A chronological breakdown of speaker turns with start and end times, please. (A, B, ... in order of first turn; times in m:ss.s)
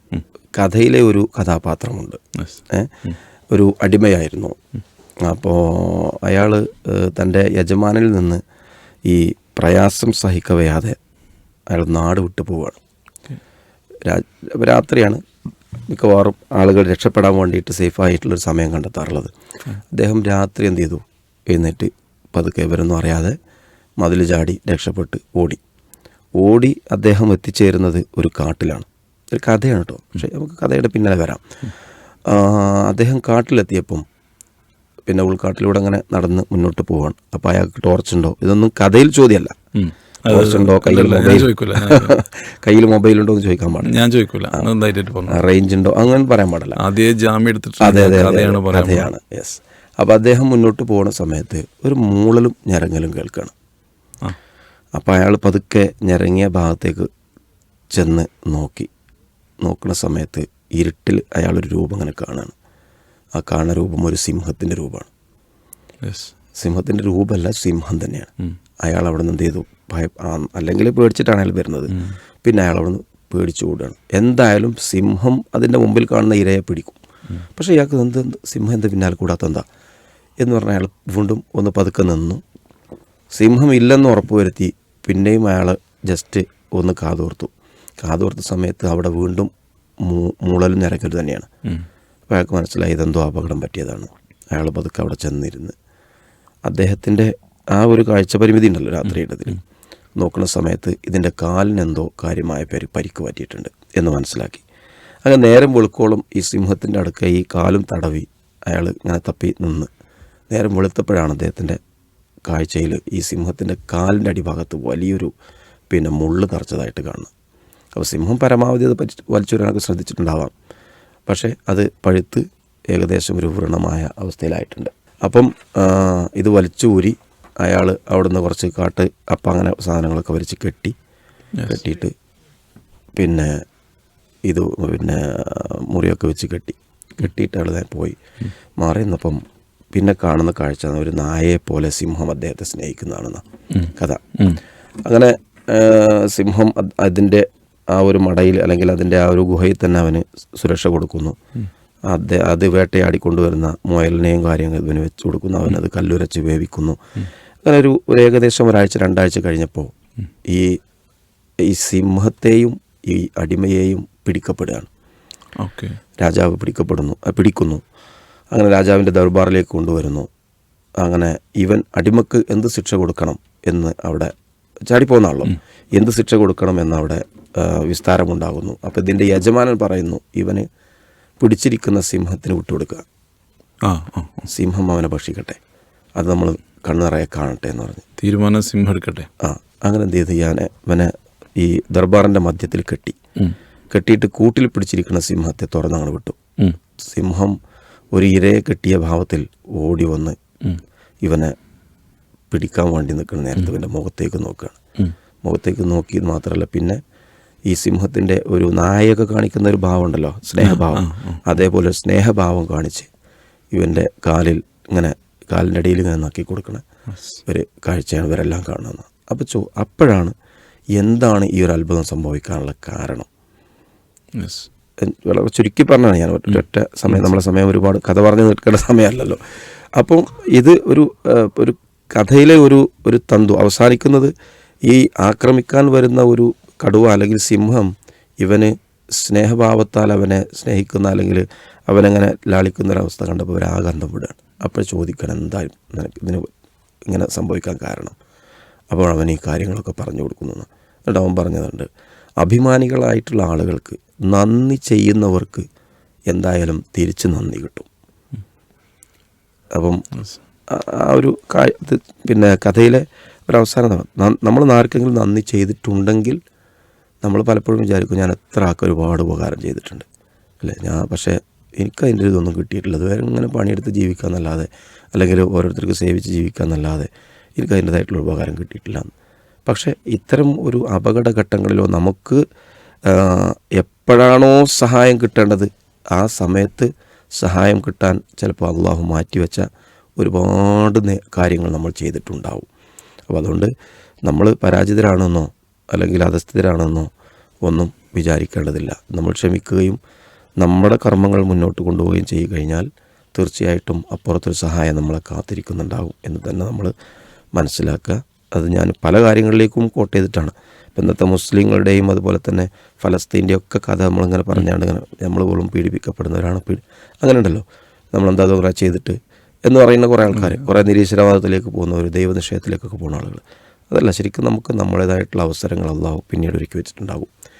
0:00.6-0:03.0 A
0:02.4-0:03.2 B
0:03.5-0:04.6 A
0:05.2-0:08.4 A
0:09.0-0:11.0 A
0:11.7-0:12.8 A
0:14.0-0:15.2 A
0:15.9-0:19.3 A
0:19.9-0:23.4 A
0:24.0-0:25.6 A
0:26.4-0:31.4 A
0:32.2-0:34.0 A
0:35.1-0:39.5 A
0:39.7-0:42.1 B
0:40.3-0:43.9 A
0:43.8-0:45.4 B
0:45.3-0:46.8 A
0:46.8-0:49.1 B
0:47.8-0:53.5 A
0:55.0-0:57.1 A
0:57.9-0:58.9 A
0:59.6-1:02.5 A
1:03.4-1:05.1 A
1:06.0-1:06.3 B
1:06.5-1:08.3 A
1:08.8-1:19.6 A
1:20.4-1:22.4 A
1:23.3-1:27.5 A
1:28.0-1:29.5 A
1:30.0-1:31.5 A
1:32.3-1:35.7 A
1:36.6-1:39.6 A
1:40.2-1:44.6 A
1:45.2-1:49.9 A
1:50.5-1:51.8 A
1:52.5-1:55.3 A
1:55.9-1:57.3 A
1:58.0-2:00.5 A
2:01.3-2:10.9 A
2:11.6-2:12.1 A
2:13.2-2:13.6 A
2:14.5-2:18.2 A
2:18.8-2:19.4 A
2:19.9-2:24.3 A
2:23.7-2:24.6 B
2:25.0-2:31.4 A
2:32.1-2:37.0 A
2:37.6-2:39.9 A
2:40.4-2:40.8 A
2:41.6-2:44.9 A
2:45.6-2:46.0 B
2:46.2-2:47.8 A
2:48.5-2:50.3 A
2:51.0-2:54.3 A
2:54.9-3:00.6 A
3:01.4-3:03.0 A
3:03.8-3:04.5 B
3:04.5-3:05.6 A
3:06.2-3:08.0 A
3:08.2-3:09.3 B
3:09.4-3:13.2 A
3:13.9-3:16.4 A
3:17.0-3:17.6 A
3:18.1-3:20.4 A
3:21.2-3:21.5 A
3:22.5-3:24.8 A
3:25.4-3:27.0 A
3:27.7-3:33.1 A
3:30.6-3:31.4 B
3:33.7-3:36.8 A
3:37.1-3:37.4 B
3:37.4-3:40.3 A
3:40.9-3:43.3 A
3:44.4-3:44.7 B
3:45.0-3:49.4 A
3:50.0-3:54.3 A
3:54.8-4:06.5 A
4:07.1-4:08.2 A
4:08.9-4:11.9 A
4:12.4-4:15.6 A
4:16.3-4:17.9 A
4:19.7-4:20.0 A
4:20.7-4:26.4 A
4:27.2-4:30.1 A
4:30.6-4:39.1 A
4:39.6-4:42.4 A
4:43.0-4:52.7 A
4:53.3-4:53.7 A
4:54.2-4:57.1 A
4:57.6-5:00.0 A
5:00.6-5:06.9 A
5:07.6-5:27.3 A
5:20.4-5:20.6 B